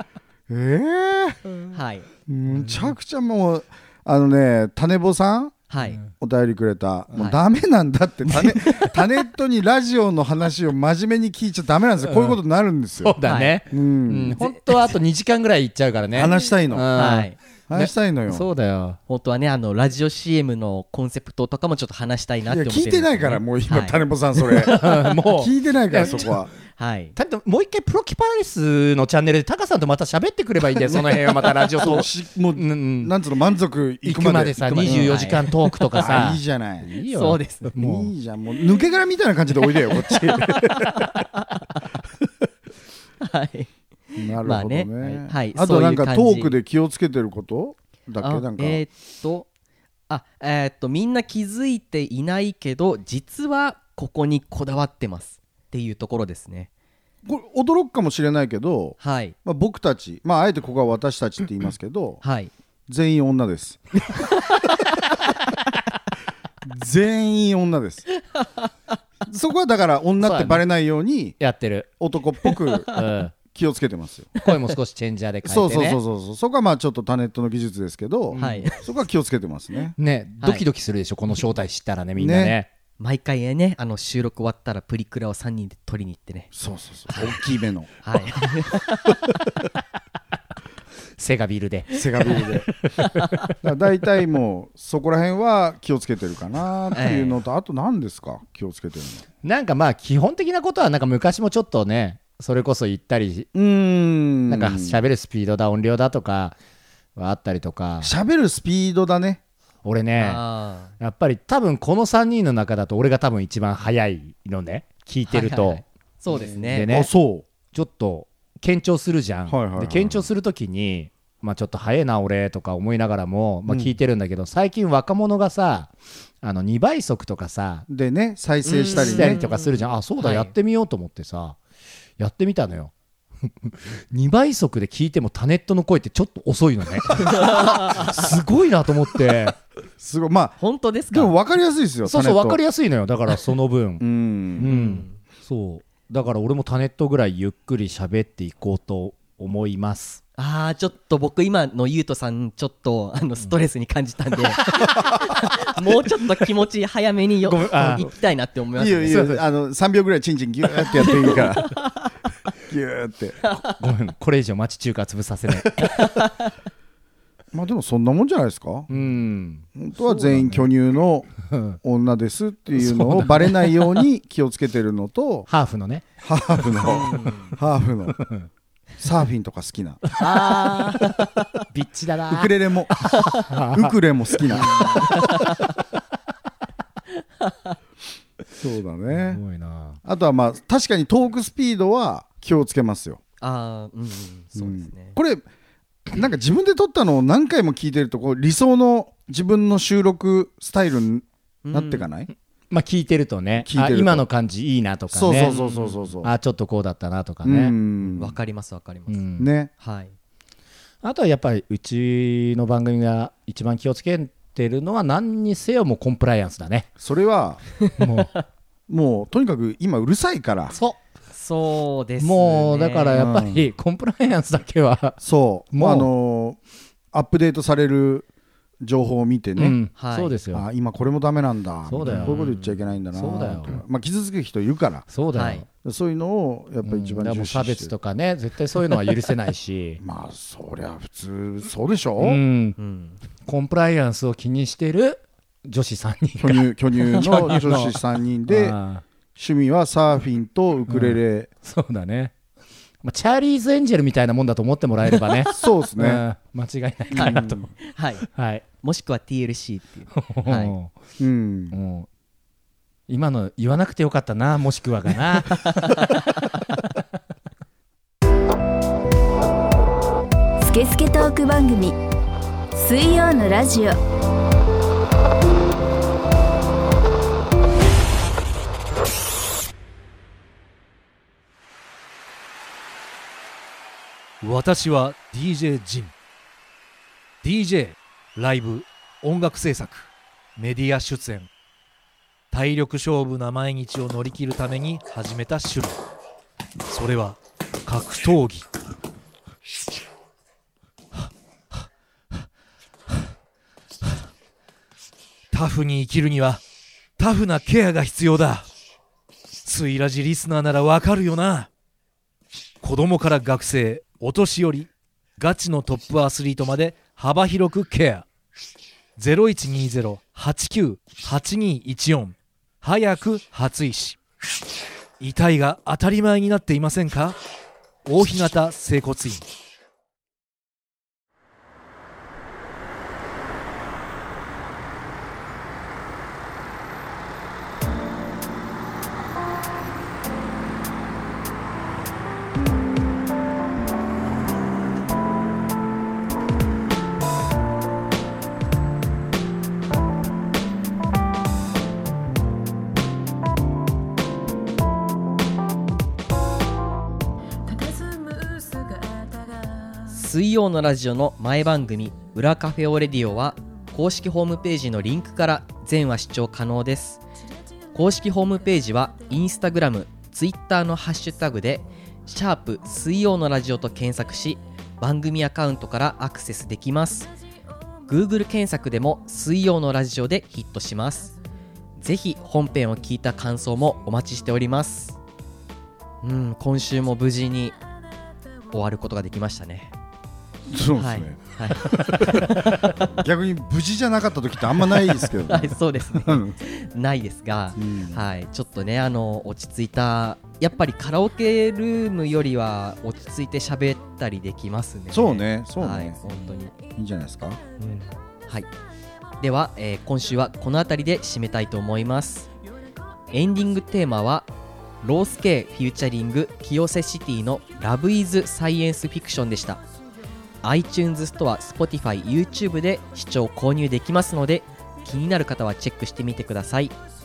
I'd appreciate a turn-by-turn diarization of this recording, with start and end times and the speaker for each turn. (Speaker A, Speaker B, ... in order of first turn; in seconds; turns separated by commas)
Speaker A: 0.5-1.4, Speaker B: 1.7-2.1, Speaker A: 2.3-13.2, Speaker C: 2.5-2.9, Speaker B: 5.7-6.0, Speaker C: 8.4-8.8, Speaker C: 12.0-12.4, Speaker C: 13.0-19.0, Speaker B: 13.2-13.6, Speaker A: 13.7-14.4, Speaker A: 16.1-17.0, Speaker B: 16.9-17.4, Speaker A: 17.7-18.5, Speaker B: 19.1-24.6, Speaker A: 22.5-26.5, Speaker C: 24.6-26.4, Speaker B: 26.8-27.1, Speaker C: 27.1-33.1, Speaker A: 30.9-35.4, Speaker C: 34.0-38.1, Speaker B: 34.9-36.0, Speaker A: 36.0-36.9, Speaker B: 37.1-37.7, Speaker A: 37.8-41.0, Speaker B: 40.1-41.9, Speaker C: 40.5-41.2, Speaker B: 43.2-43.7, Speaker A: 44.1-48.8, Speaker B: 44.4-46.6, Speaker B: 48.2-49.5, Speaker B: 50.1-56.7, Speaker A: 57.2-62.2, Speaker B: 59.0-59.4, Speaker B: 62.2-62.5, Speaker A: 62.9-63.9, Speaker A: 66.6-68.0, Speaker B: 68.4-68.7, Speaker A: 69.3-71.4, Speaker C: 70.2-70.6, Speaker C: 71.4-71.9, Speaker A: 72.0-74.3, Speaker C: 72.8-73.3, Speaker C: 74.4-76.0, Speaker A: 75.4-80.0, Speaker C: 78.3-78.7, Speaker B: 78.4-78.9, Speaker C: 80.0-82.7, Speaker A: 82.1-82.5, Speaker B: 83.0-86.5, Speaker A: 86.5-87.9, Speaker B: 87.1-87.4, Speaker B: 88.0-89.4, Speaker C: 91.2-93.4, Speaker A: 91.9-92.7, Speaker B: 93.0-93.3, Speaker A: 93.6-99.2, Speaker B: 96.9-97.4, Speaker C: 99.4-103.5, Speaker A: 103.5-105.0, Speaker C: 104.5-106.5, Speaker C: 107.2-108.1, Speaker A: 108.0-109.4, Speaker C: 109.8-110.4, Speaker B: 110.2-110.9, Speaker C: 111.0-115.8, Speaker B: 115.3-116.9, Speaker A: 116.3-117.5, Speaker C: 116.7-117.1, Speaker C: 117.7-127.8, Speaker A: 119.5-120.3, Speaker A: 123.7-123.9, Speaker A: 127.9-129.4, Speaker B: 128.6-130.5, Speaker C: 128.9-131.6, Speaker C: 132.2-132.9, Speaker C: 133.4-139.6, Speaker B: 137.2-138.3, Speaker A: 140.0-140.6, Speaker B: 140.6-141.3, Speaker A: 141.1-142.6, Speaker C: 142.0-150.2, Speaker A: 144.0-144.7, Speaker B: 144.6-145.2, Speaker B: 150.4-159.4, Speaker C: 157.4-158.1, Speaker A: 158.8-161.8, Speaker C: 159.1-159.4, Speaker B: 160.9-162.1, Speaker A: 162.7-163.4, Speaker B: 163.4-163.7, Speaker C: 163.6-166.0, Speaker B: 165.8-166.5, Speaker A: 167.5-168.9, Speaker C: 168.9-170.7, Speaker A: 169.7-171.3, Speaker C: 171.4-171.8, Speaker A: 171.8-175.5, Speaker C: 172.8-174.0, Speaker C: 175.5-177.0, Speaker A: 176.2-178.2, Speaker B: 176.8-177.6, Speaker C: 178.2-178.5, Speaker A: 179.0-180.0, Speaker C: 180.2-182.5, Speaker B: 180.2-181.5, Speaker A: 182.3-185.1, Speaker B: 183.1-183.4, Speaker C: 183.2-183.9, Speaker C: 184.5-185.6, Speaker B: 184.6-185.7, Speaker B: 187.4-187.8, Speaker A: 188.6-189.4, Speaker C: 189.1-190.0, Speaker A: 190.0-193.2, Speaker B: 193.4-195.2, Speaker A: 194.6-195.4, Speaker A: 196.1-202.3, Speaker B: 201.6-202.1, Speaker C: 202.7-205.6, Speaker A: 203.6-204.2, Speaker A: 205.1-206.3, Speaker B: 205.4-206.1, Speaker C: 206.2-207.7, Speaker A: 207.4-208.3, Speaker B: 208.2-209.2, Speaker C: 209.1-209.5, Speaker A: 209.4-209.7, Speaker B: 209.8-210.1, Speaker C: 211.0-216.9, Speaker A: 217.0-217.6, Speaker C: 218.0-218.3, Speaker A: 218.9-220.7, Speaker C: 220.7-220.9, Speaker B: 221.3-223.2, Speaker C: 222.2-225.2, Speaker A: 223.1-223.7, Speaker A: 225.2-226.6, Speaker C: 225.7-226.1, Speaker A: 227.1-228.3, Speaker A: 228.8-229.8, Speaker C: 229.6-230.6, Speaker B: 229.9-230.3, Speaker A: 230.5-235.1, Speaker C: 231.9-233.8, Speaker B: 232.0-232.6, Speaker C: 235.1-235.7, Speaker B: 235.3-235.6, Speaker A: 235.7-237.9, Speaker C: 236.8-240.0, Speaker A: 240.0-242.4, Speaker C: 242.2-242.8, Speaker B: 242.8-243.2, Speaker C: 243.4-249.0, Speaker A: 246.4-248.8, Speaker A: 249.3-251.5, Speaker C: 250.9-252.3, Speaker C: 253.0-257.7, Speaker A: 255.5-256.2, Speaker B: 257.1-258.2, Speaker A: 257.1-257.6, Speaker C: 258.2-258.6, Speaker B: 258.8-260.8, Speaker C: 260.1-260.9, Speaker A: 261.2-261.8, Speaker C: 261.7-262.1, Speaker C: 263.1-266.3, Speaker B: 265.9-266.2, Speaker D: 270.6-272.0, Speaker D: 272.7-274.0, Speaker E: 284.4-286.1, Speaker E: 287.4-291.5, Speaker E: 292.5-296.0, Speaker E: 296.8-298.7, Speaker E: 305.5-306.6, Speaker E: 307.2-308.7, Speaker E: 309.6-311.7, Speaker E: 312.8-318.2, Speaker E: 319.2-324.2, Speaker E: 325.2-327.4, Speaker E: 328.1-329.5, Speaker D: 357.6-360.0, Speaker B: 360.0-367.2, Speaker B: 367.9-377.3, Speaker B: 378.1-381.3, Speaker B: 382.0-385.2, Speaker B: 386.2-387.8, Speaker B: 388.7-389.9, Speaker A: 390.7-396.6, Speaker B: 390.9-393.2, Speaker B: 395.4-406.7, Speaker A: 397.8-398.2, Speaker A: 405.1-406.1, Speaker A: 406.9-407.6, Speaker B: 407.8-408.7, Speaker B: 409.4-412.5, Speaker B: 413.3-414.5, Speaker B: 415.0-419.8, Speaker B: 420.6-426.9